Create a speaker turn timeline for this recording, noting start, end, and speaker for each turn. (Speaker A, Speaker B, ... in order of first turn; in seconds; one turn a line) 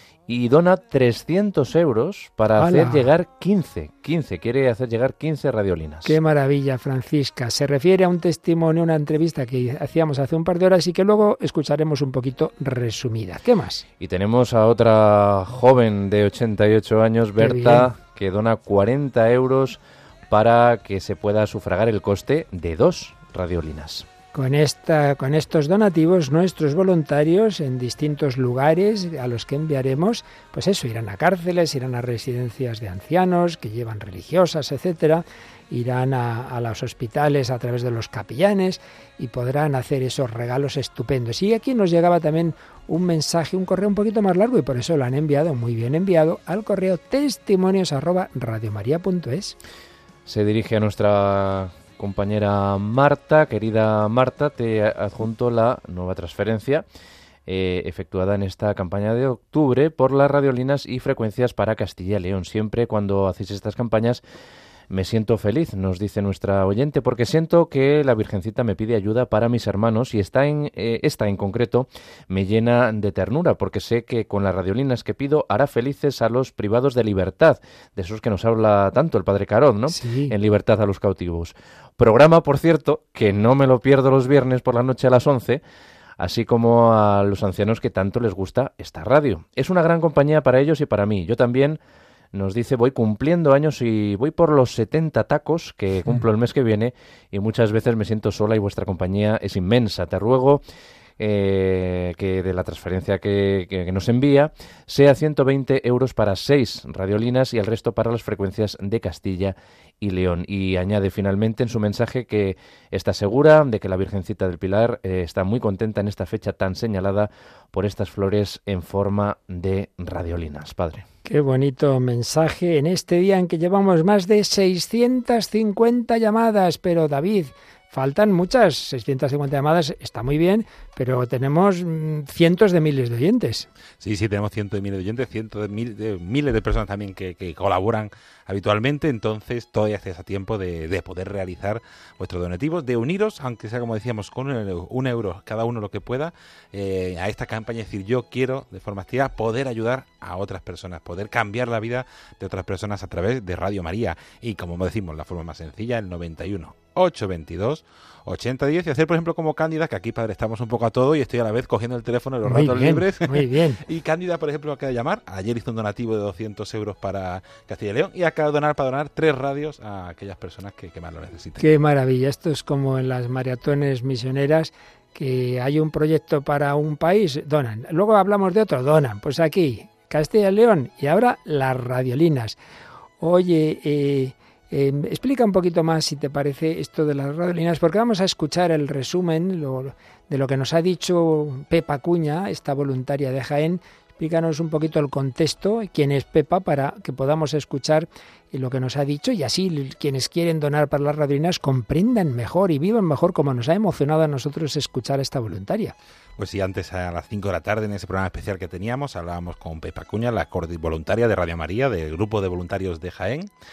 Speaker A: 0.3-6.2
Speaker B: 2.6-3.1
Speaker B: 6.0-13.8
Speaker A: 14.0-24.1
Speaker B: 17.4-17.9
Speaker B: 24.3-49.5
Speaker A: 50.2-56.8
Speaker A: 57.5-64.2
Speaker A: 64.9-85.6
Speaker B: 79.9-80.3
Speaker A: 86.2-91.8
Speaker A: 92.3-100.6
Speaker A: 101.2-121.0
Speaker B: 121.2-133.7
Speaker C: 134.0-171.6
Speaker B: 162.4-163.8
Speaker B: 171.6-182.6
Speaker B: 183.2-205.9
Speaker C: 206.4-213.5